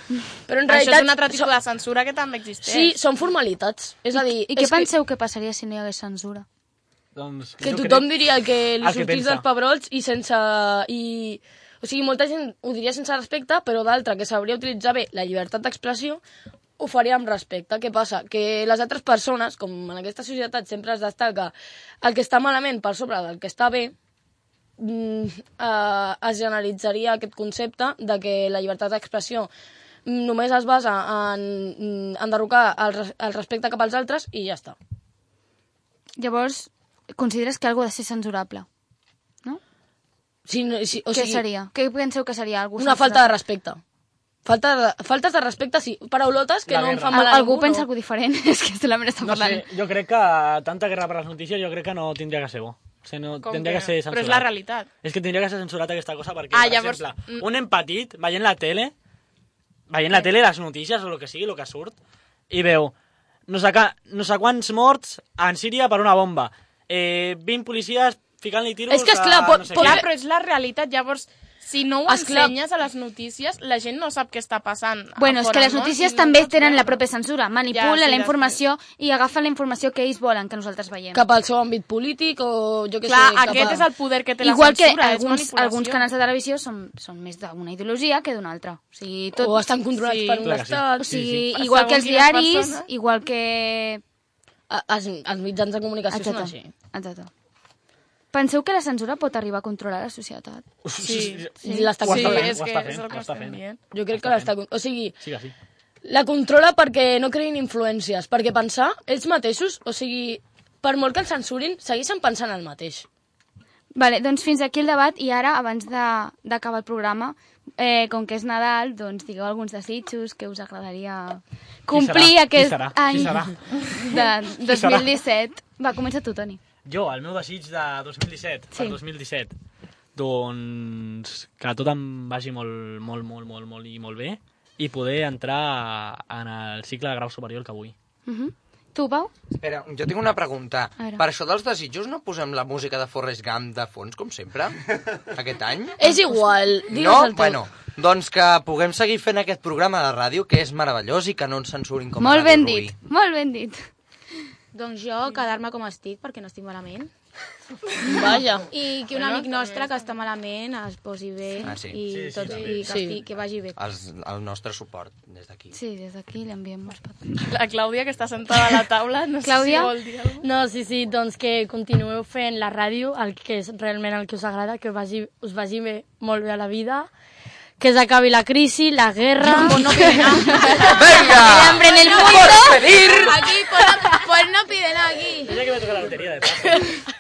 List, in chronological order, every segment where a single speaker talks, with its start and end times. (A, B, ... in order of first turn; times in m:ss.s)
0:00.5-0:01.6 A
0:00.7-0:03.0 B
0:02.6-0:04.9 A
0:04.2-0:06.4 C
0:07.1-0:08.2 D
0:07.6-0:16.2 A
0:08.8-0:09.4 D
0:16.8-0:23.9 A
0:24.8-0:29.5 A
0:30.1-0:34.8 A
0:36.2-0:38.7 C
0:40.4-0:41.4 A
0:41.1-0:43.4 C
0:42.8-0:43.8 A
0:44.4-0:47.9 A
0:46.7-0:47.2 D
0:47.1-0:49.6 C
0:49.2-0:58.9 D
0:53.4-0:54.9 B
0:56.5-0:57.5 B
0:59.9-1:02.0 D
1:02.5-1:02.9 D
1:03.5-1:10.0 D
1:08.9-1:10.1 A
1:09.8-1:16.9 B
1:12.1-1:12.6 A
1:15.2-1:21.2 C
1:17.7-1:18.6 B
1:21.1-1:23.8 A
1:23.0-1:26.0 B
1:24.4-1:29.7 C
1:29.4-1:31.1 A
1:29.9-1:30.5 B
1:30.4-1:31.4 D
1:31.0-1:34.0 C
1:31.5-1:32.9 B
1:34.7-1:36.7 A
1:36.1-1:37.3 C
1:38.3-1:40.6 C
1:40.8-1:44.5 D
1:41.0-1:41.5 B
1:41.6-1:42.0 C
1:41.6-1:42.6 A
1:42.0-1:43.8 B
1:43.9-1:45.2 A
1:45.2-1:45.5 D
1:46.0-1:53.1 A
1:53.9-2:06.6 C
2:01.9-2:05.1 D
2:06.8-2:09.5 D
2:08.7-2:09.0 C
2:10.2-2:17.9 D
2:18.3-2:19.3 C
2:19.5-2:26.0 E
2:26.0-2:27.6 A
2:26.9-2:33.0 E
2:32.2-2:33.8 C
2:34.7-2:37.1 F
2:38.0-2:38.7 A
2:38.7-2:43.8 F
2:39.1-2:39.9 B
2:41.6-2:42.5 E
2:42.1-2:42.9 D
2:42.8-2:43.2 A
2:43.8-2:45.7 E
2:45.7-2:47.4 C
2:47.4-2:50.4 B
2:49.4-2:49.9 C
2:50.4-2:57.1 G
2:57.8-3:00.1 G
2:59.4-3:05.6 F
2:59.7-3:01.0 B
3:00.2-3:00.8 C
3:00.7-3:03.5 E
3:01.8-3:02.8 B
3:03.8-3:04.1 B
3:05.4-3:06.9 D